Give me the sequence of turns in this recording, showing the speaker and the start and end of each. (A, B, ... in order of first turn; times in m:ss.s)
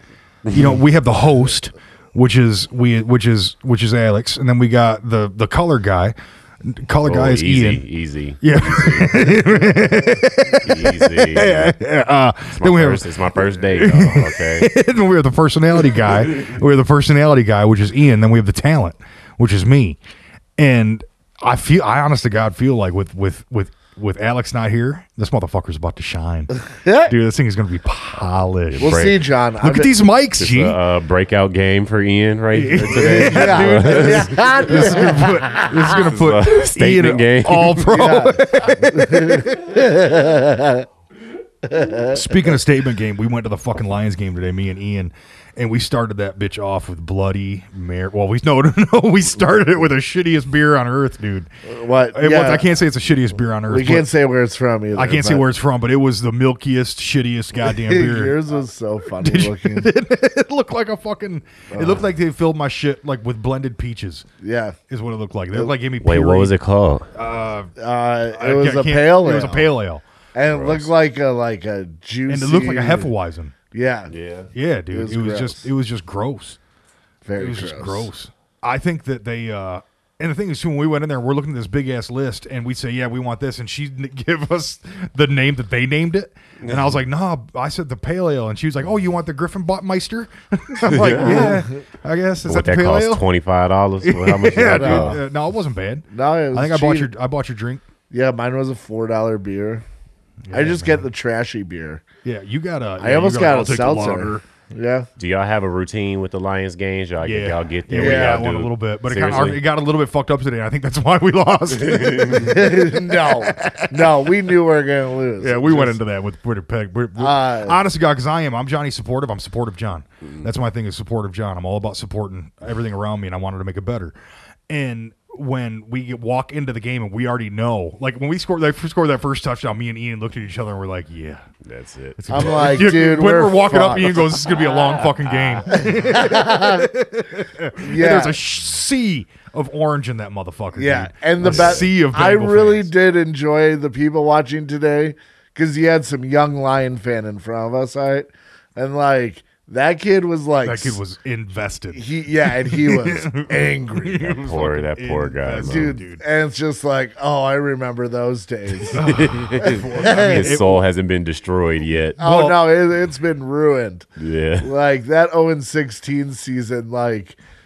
0:00.4-0:00.8 A
0:00.5-0:07.8 B
0:07.0-0:09.5 A
0:08.4-0:20.0 B
0:10.6-0:11.8 A
0:12.5-0:14.7 A
0:20.6-0:29.0 B
0:26.7-0:27.1 C
0:28.7-0:29.2 A
0:28.8-0:30.0 C
0:29.6-0:30.8 B
0:30.4-0:35.1 A
0:32.5-0:39.6 B
0:32.8-0:35.9 C
0:35.9-0:37.9 A
0:37.9-0:40.9 C
0:41.6-0:42.3 C
0:42.1-0:51.5 B
0:51.6-0:52.7 C
0:52.1-0:54.1 B
0:53.7-0:55.4 C
0:54.9-0:58.4 B
0:57.6-0:59.9 C
0:59.2-1:04.3 B
1:01.7-1:02.0 C
1:04.4-1:04.8 C
1:04.9-1:06.5 B
1:06.0-1:07.1 A
1:07.1-1:07.7 B
1:07.8-1:09.7 C
1:08.3-1:10.0 B
1:10.3-1:13.1 C
1:10.5-1:10.9 A
1:12.3-1:13.5 B
1:13.7-1:14.1 C
1:14.1-1:14.5 A
1:14.5-1:16.6 B
1:14.9-1:15.7 C
1:17.2-1:18.1 C
1:17.4-1:33.2 B
1:30.8-1:31.6 A
1:32.4-1:35.2 A
1:34.0-1:37.8 B
1:34.6-1:35.2 C
1:36.1-1:37.1 C
1:38.1-1:39.8 C
1:40.4-1:41.1 B
1:40.5-1:42.0 C
1:42.2-1:44.4 B
1:43.0-1:45.1 C
1:45.2-1:49.6 A
1:47.2-1:54.1 B
1:47.9-1:48.5 C
1:51.8-1:52.5 A
1:52.3-1:56.0 C
1:55.4-2:04.1 B
1:57.2-1:57.8 C
2:04.7-2:11.5 B
2:11.6-2:12.7 A
2:12.2-2:22.9 B
2:12.3-2:14.3 C
2:14.3-2:15.8 A
2:15.7-2:16.9 C
2:17.8-2:18.4 C
2:20.8-2:31.0 C
2:21.4-2:21.8 A
2:30.6-2:36.2 B
2:31.9-2:34.4 C
2:34.3-2:36.0 A
2:35.6-2:39.1 C
2:38.9-2:40.8 B
2:38.9-2:42.2 A
2:39.6-2:40.6 C
2:42.2-2:44.1 C
2:42.2-2:42.6 B
2:44.2-2:44.7 A
2:44.6-2:47.4 C